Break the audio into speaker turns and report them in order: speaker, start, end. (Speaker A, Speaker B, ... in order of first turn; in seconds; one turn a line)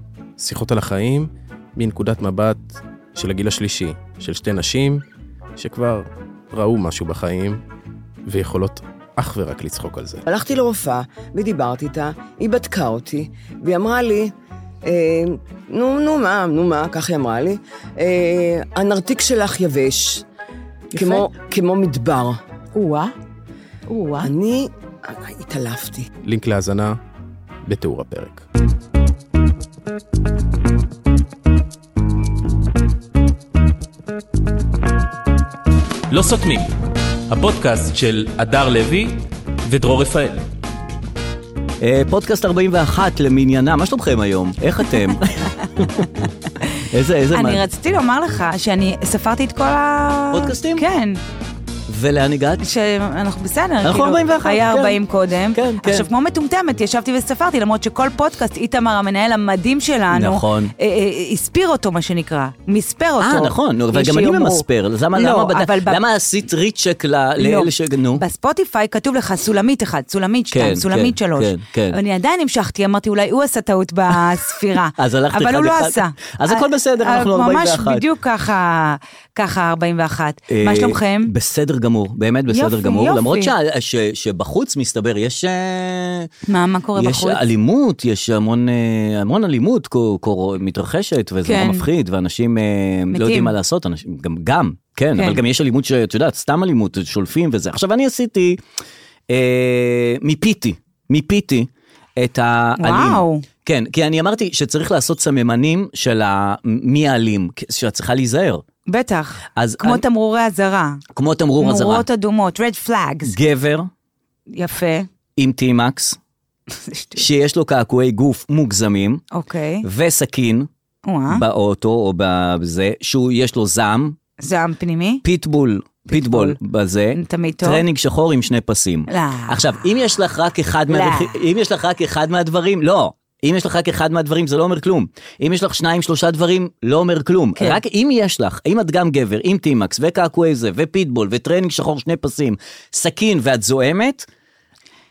Speaker A: 0.4-5.0
Speaker A: 5.6-7.6
Speaker A: 8.3-10.2
Speaker B: 10.3-14.3
Speaker B: 14.8-20.2
Speaker B: 20.9-22.4
Speaker C: 22.8-23.1
Speaker C: 23.9-24.3
Speaker B: 24.2-26.1
Speaker A: 26.2-27.0
Speaker A: 27.7-28.4
Speaker D: 36.1-36.7
Speaker D: 37.3-40.4
Speaker E: 41.8-46.1
Speaker C: 45.6-51.2
Speaker E: 46.9-47.6
Speaker E: 50.3-50.9
Speaker E: 51.9-52.6
Speaker C: 52.6-66.0
Speaker E: 53.8-55.0
Speaker E: 55.5-56.1
Speaker E: 60.1-60.7
Speaker E: 63.2-68.2
Speaker C: 67.4-81.3
Speaker E: 70.5-72.0
Speaker E: 75.0-78.0
Speaker E: 80.5-86.3
Speaker C: 82.5-83.5
Speaker C: 86.5-87.4
Speaker E: 87.0-98.6
Speaker C: 91.5-91.9
Speaker C: 93.1-93.5
Speaker E: 99.3-108.6
Speaker C: 102.8-103.4
Speaker C: 108.9-111.0
Speaker E: 109.6-110.0
Speaker E: 111.2-112.0
Speaker C: 111.6-113.3
Speaker E: 113.3-113.9
Speaker C: 114.5-115.1
Speaker E: 115.4-116.2
Speaker C: 116.9-117.2
Speaker E: 117.2-119.2
Speaker C: 119.3-119.8
Speaker E: 119.8-120.7
Speaker C: 121.0-121.4
Speaker E: 121.3-124.2
Speaker C: 124.4-125.2
Speaker E: 125.2-144.3
Speaker C: 126.1-126.6
Speaker C: 127.1-127.8
Speaker C: 129.1-129.8
Speaker C: 130.9-131.4